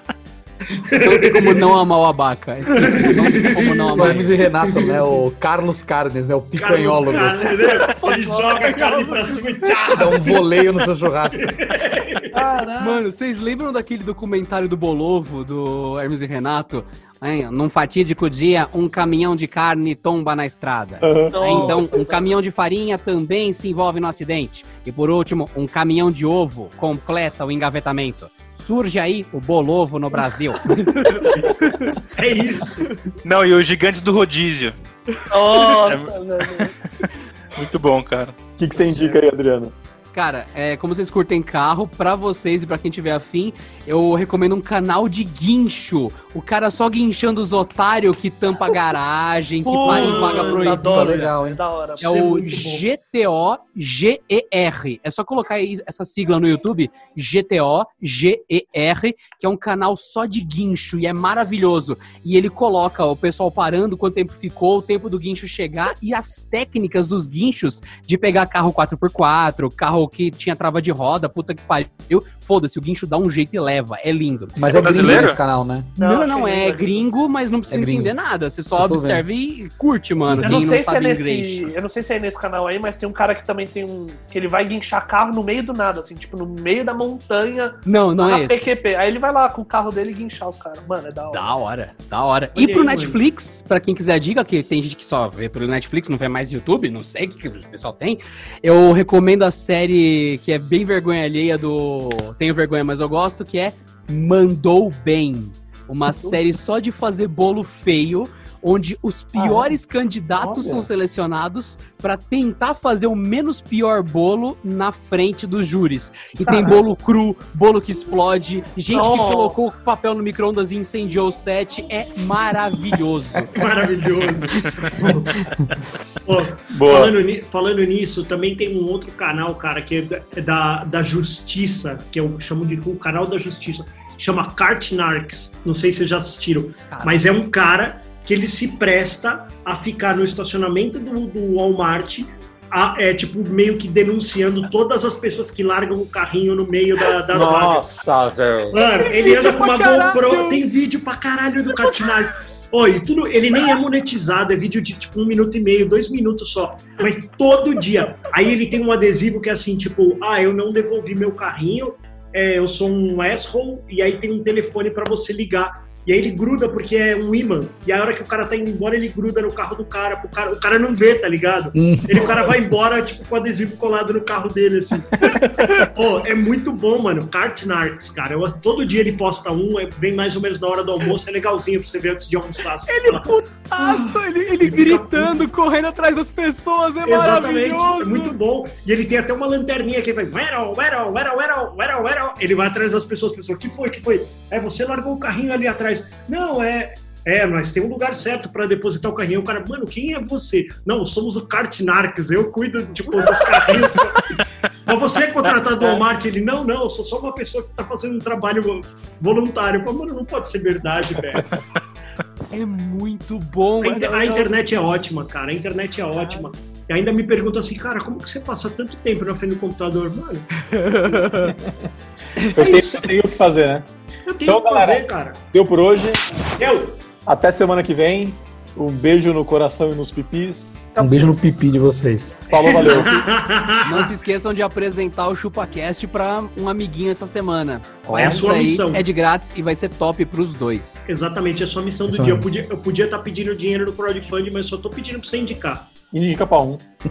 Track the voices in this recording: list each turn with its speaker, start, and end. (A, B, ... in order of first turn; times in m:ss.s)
0:00.7-0:01.7 A
0:00.9-0:04.4 B
0:02.7-0:05.2 A
0:03.9-0:07.5 C
0:06.6-0:10.7 A
0:07.8-0:09.4 D
0:09.8-0:11.6 C
0:11.3-0:12.5 A
0:12.3-0:13.0 D
0:12.8-0:31.6 B
0:21.0-0:21.8 E
0:21.3-0:22.3 D
0:32.1-0:32.9 A
0:33.2-0:34.7 F
0:35.3-0:36.7 D
0:35.6-0:38.4 F
0:38.6-0:39.7 E
0:38.8-0:39.2 D
0:40.1-0:51.1 B
0:49.6-0:52.2 D
0:49.8-0:51.3 A
0:50.8-0:51.6 C
0:52.0-0:52.9 A
0:52.0-1:15.4 B
1:14.6-1:15.9 C
1:14.8-1:15.4 F
1:16.0-1:17.1 D
1:16.0-1:21.7 B
1:17.7-1:18.2 C
1:18.7-1:19.2 C
1:20.3-1:20.6 C
1:20.4-1:31.5 D
1:27.8-1:28.6 B
1:31.3-2:03.6 B
1:32.6-1:33.2 A
1:49.3-1:49.7 E
1:50.4-1:50.9 E
1:58.9-1:59.6 D
2:03.5-2:05.6 A
2:06.2-2:27.9 A
2:06.7-2:07.2 E
2:16.9-2:17.2 B
2:27.3-2:28.9 E
2:28.7-3:05.4 A
2:29.0-2:30.6 B
2:31.8-2:32.0 B
2:51.7-2:52.4 C
3:02.9-3:08.4 B
3:07.0-3:31.6 A
3:32.5-3:34.5 B
3:33.8-3:40.5 A
3:36.2-3:36.5 B
3:40.6-3:41.6 B
3:41.4-3:41.7 E
3:42.4-3:43.1 B
3:42.5-3:43.9 E
3:44.3-3:45.4 A
3:44.4-3:46.2 E
3:46.6-3:47.0 A
3:47.2-3:51.4 E
3:51.0-3:52.4 C
3:52.5-3:53.3 E
3:52.5-3:54.1 A
3:53.8-4:01.0 B
3:58.1-3:58.4 E
3:58.1-3:59.0 A
4:01.1-4:06.0 A
4:02.1-4:02.5 C
4:06.1-4:06.8 E